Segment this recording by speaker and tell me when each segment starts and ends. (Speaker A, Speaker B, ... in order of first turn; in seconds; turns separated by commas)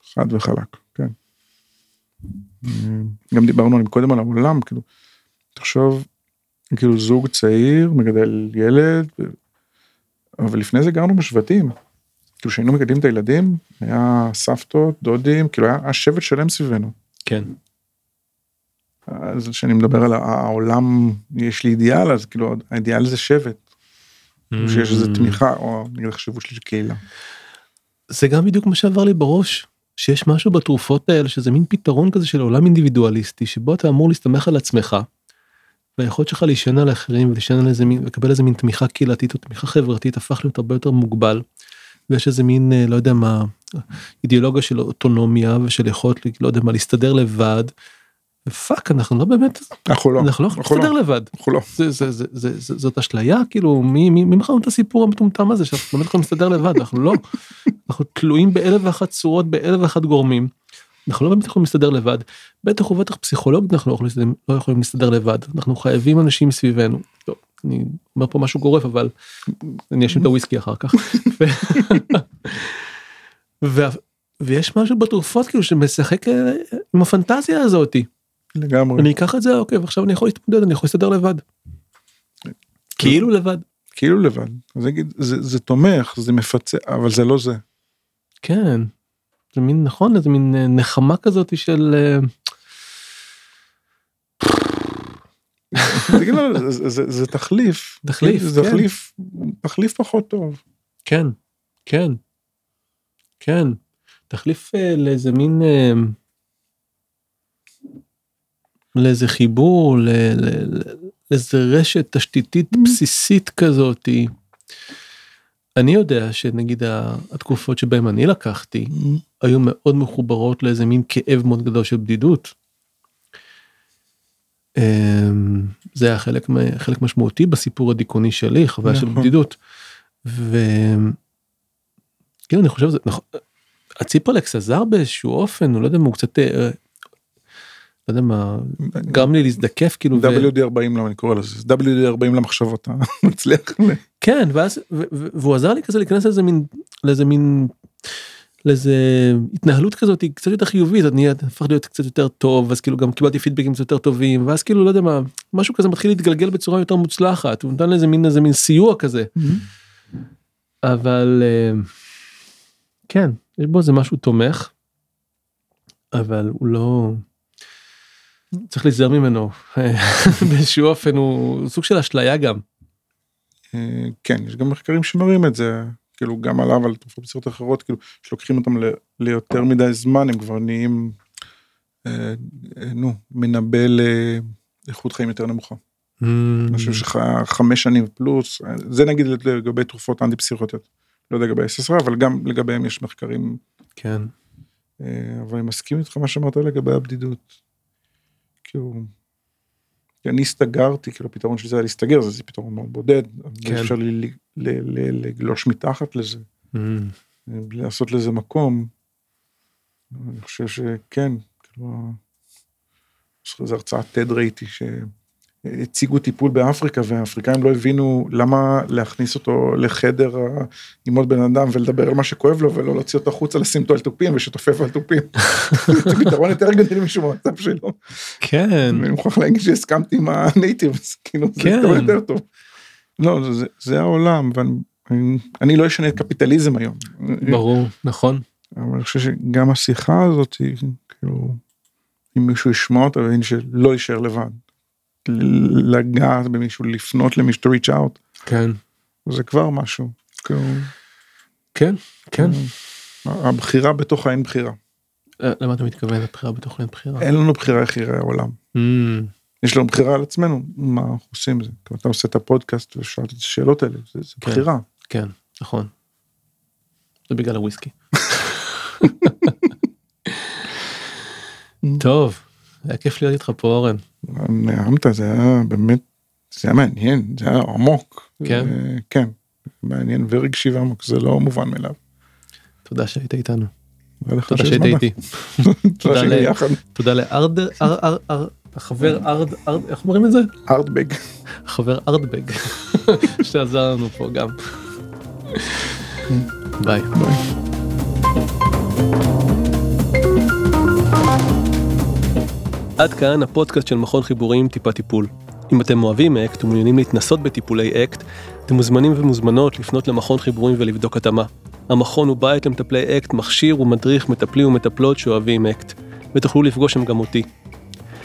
Speaker A: 0.1-1.1, Speaker A: 2.6-4.8, Speaker A: 5.6-6.1, Speaker A: 6.7-9.4, Speaker A: 10.4-11.7, Speaker A: 12.4-16.9, Speaker B: 17.3-17.5, Speaker A: 19.1-23.6, Speaker B: 24.5-25.4, Speaker A: 24.6-27.0, Speaker B: 28.1-35.1, Speaker B: 36.0-41.4, Speaker B: 42.1-47.7, Speaker B: 48.5-60.5, Speaker A: 49.9-51.7, Speaker B: 61.1-69.1, Speaker B: 69.7-72.9, Speaker A: 71.8-72.1, Speaker B: 73.6-78.1, Speaker A: 78.5-79.1, Speaker B: 79.0-81.4, Speaker A: 82.5-83.3, Speaker B: 83.0-83.7, Speaker A: 83.9-87.6, Speaker B: 88.4-88.9, Speaker B: 89.5-92.3, Speaker B: 94.4-94.8, Speaker A: 95.7-100.6, Speaker B: 95.8-96.2, Speaker B: 98.0-98.9, Speaker B: 101.1-101.4, Speaker B: 101.9-102.2, Speaker B: 103.4-103.8, Speaker B: 104.3-106.2, Speaker B: 109.0-114.3, Speaker B: 115.8-122.5, Speaker A: 118.9-119.2, Speaker B: 124.8-129.6, Speaker A: 128.9-129.3, Speaker B: 130.2-131.2, Speaker B: 132.5-133.4, Speaker B: 134.0-136.8, Speaker B: 138.1-140.5, Speaker A: 138.9-139.3, Speaker A: 140.1-144.0, Speaker B: 144.2-147.8, Speaker B: 148.7-159.3, Speaker A: 159.4-159.7, Speaker B: 160.8-161.9, Speaker B: 163.1-164.7, Speaker B: 166.1-167.2, Speaker B: 168.7-172.6, Speaker A: 173.7-181.2, Speaker A: 182.0-185.8, Speaker B: 186.2-187.0, Speaker A: 186.7-193.6, Speaker B: 194.0-194.3, Speaker A: 195.0-197.5, Speaker A: 198.7-199.1, Speaker A: 200.2-206.5, Speaker B: 203.6-203.9, Speaker B: 206.7-207.1, Speaker A: 207.5-208.9, Speaker A: 210.1-212.2, Speaker A: 213.4-215.1, Speaker A: 215.7-228.4, Speaker B: 225.6-226.3, Speaker B: 228.4-229.1, Speaker A: 228.9-232.4, Speaker B: 231.6-232.2, Speaker A: 233.2-237.6, Speaker B: 237.4-238.4, Speaker A: 238.8-241.6, Speaker A: 242.3-244.6, Speaker A: 245.2-248.2, Speaker B: 248.5-248.8, Speaker A: 249.3-250.9, Speaker B: 251.8-252.6, Speaker A: 252.4-252.7, Speaker A: 253.2-254.8, Speaker B: 255.4-257.3, Speaker A: 257.2-258.6, Speaker B: 258.8-259.3, Speaker A: 259.6-264.9, Speaker B: 264.4-265.9, Speaker B: 267.3-269.7, Speaker A: 269.1-269.5, Speaker B: 270.3-270.7, Speaker B: 272.0-274.0, Speaker A: 274.2-282.0, Speaker B: 278.4-278.8, Speaker B: 282.9-283.7, Speaker A: 284.2-285.1, Speaker B: 284.5-290.5, Speaker A: 285.6-286.8, Speaker A: 290.7-291.2, Speaker B: 291.6-294.8, Speaker B: 295.5-296.1, Speaker B: 296.8-297.1, Speaker A: 297.1-297.4, Speaker B: 303.0-317.5